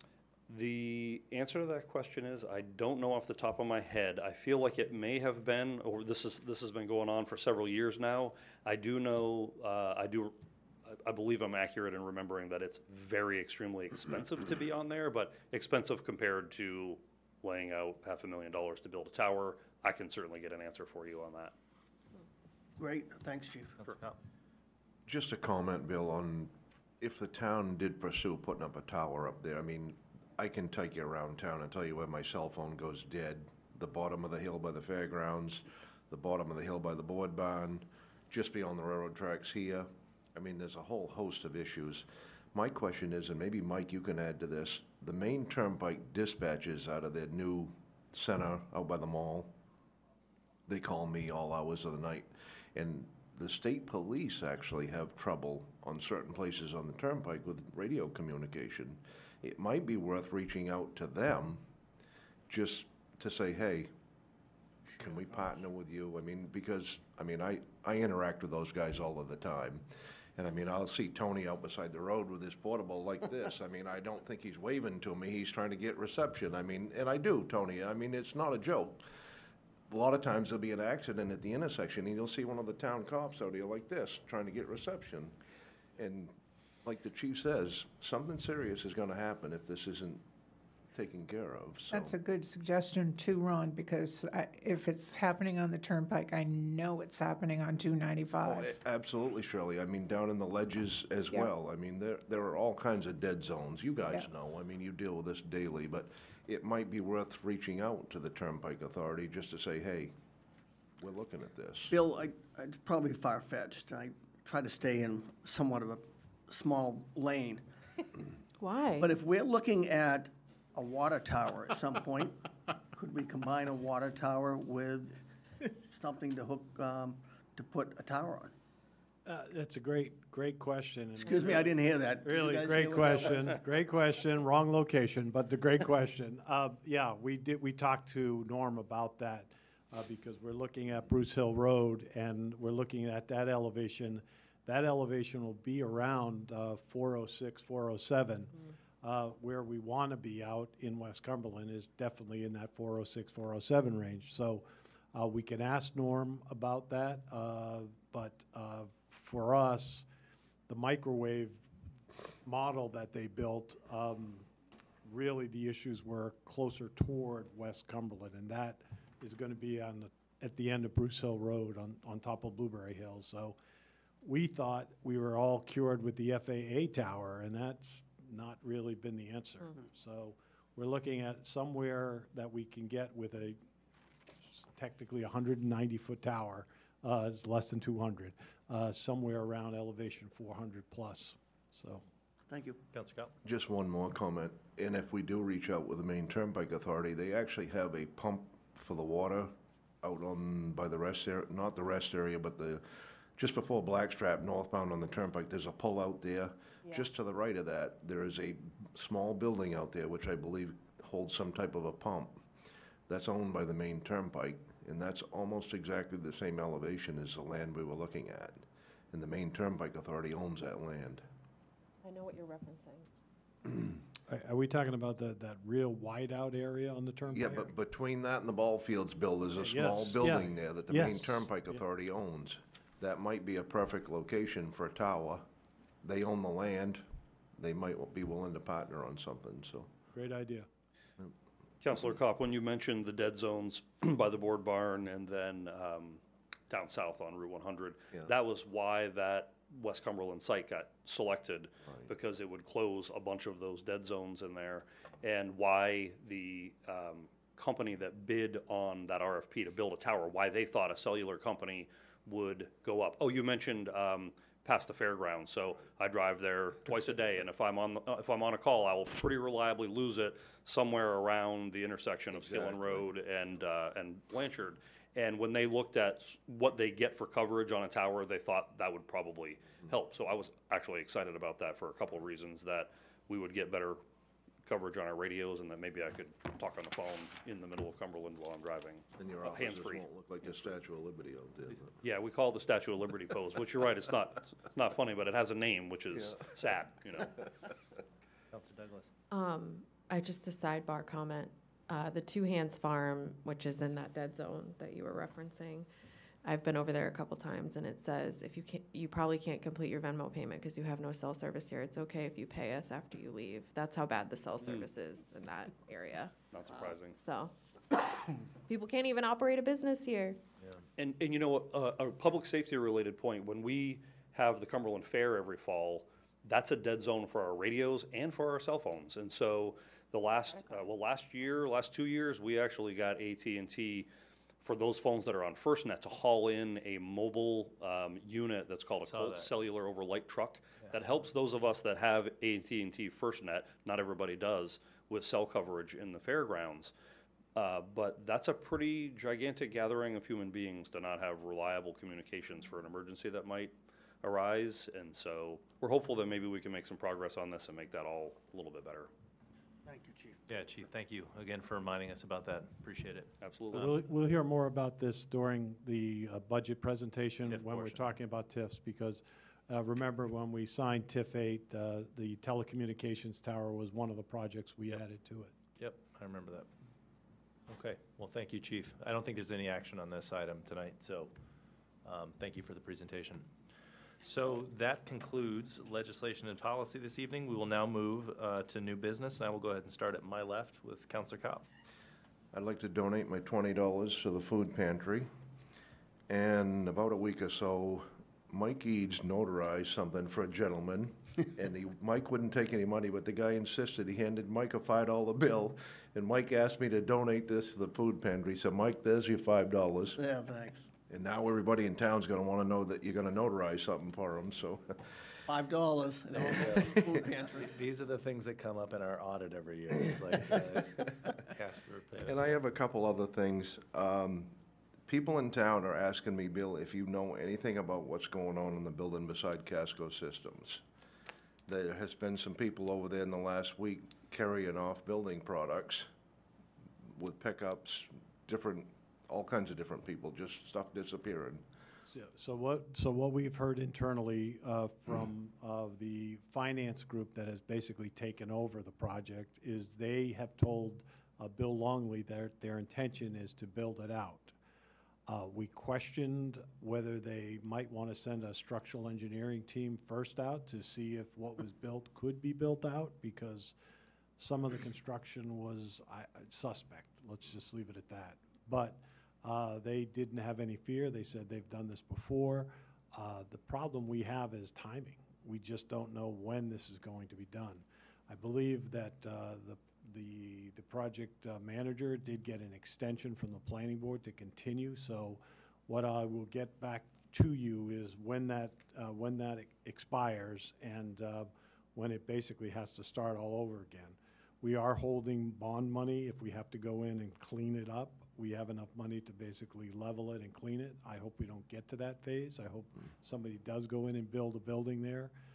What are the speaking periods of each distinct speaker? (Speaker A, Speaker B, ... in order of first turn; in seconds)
Speaker A: 0.5-10.3, 10.9-21.5, 241.8-284.0, 284.6-290.1, 292.0-297.3, 314.6-314.9, 316.5-317.1, 321.0-334.1, 334.6-346.9, 347.6-359.1, 363.4-363.9
Speaker B: 22.8-23.8, 111.9-117.7, 119.0-122.4, 122.9-125.2, 125.9-128.5, 131.2-133.6, 192.5-192.8, 359.9-360.4, 410.2-410.9, 415.5-417.7
Speaker C: 23.8-24.2, 192.9-193.3, 298.5-299.1, 339.0-339.5, 360.5-363.9, 367.5-368.1, 375.8-376.7, 377.7-381.3, 382.0-383.5, 384.2-391.7, 416.6-416.9, 417.6-422.6
Speaker D: 25.1-49.5, 50.7-61.6, 62.5-63.9, 65.0-69.8, 70.4-79.0, 79.9-85.3, 86.0-86.3, 86.8-90.2, 90.9-92.1, 98.5-110.1, 111.0-112.0, 193.4-202.8, 203.4-212.4, 213.1-221.2, 227.3-235.4, 236.0-237.0, 237.6-239.9, 272.3-273.1, 289.2-292.0, 296.1-296.5, 392.5-395.3, 396.3-410.2, 411.1-415.1, 416.4-417.2, 422.2-424.6, 425.1-430.8, 431.7-436.1, 437.1-441.6
Speaker E: 91.9-98.8
Speaker F: 118.6-119.1, 222.0-223.1, 299.3-305.9, 306.4-316.3, 317.1-320.4
Speaker G: 129.2-160.1, 160.7-161.7, 162.4-164.5, 165.1-173.6, 174.2-183.6, 184.4-192.0, 224.3-227.7, 229.6-231.8, 240.1-240.7, 363.7-375.5, 442.1-454.6, 455.3-463.8, 464.4-505.3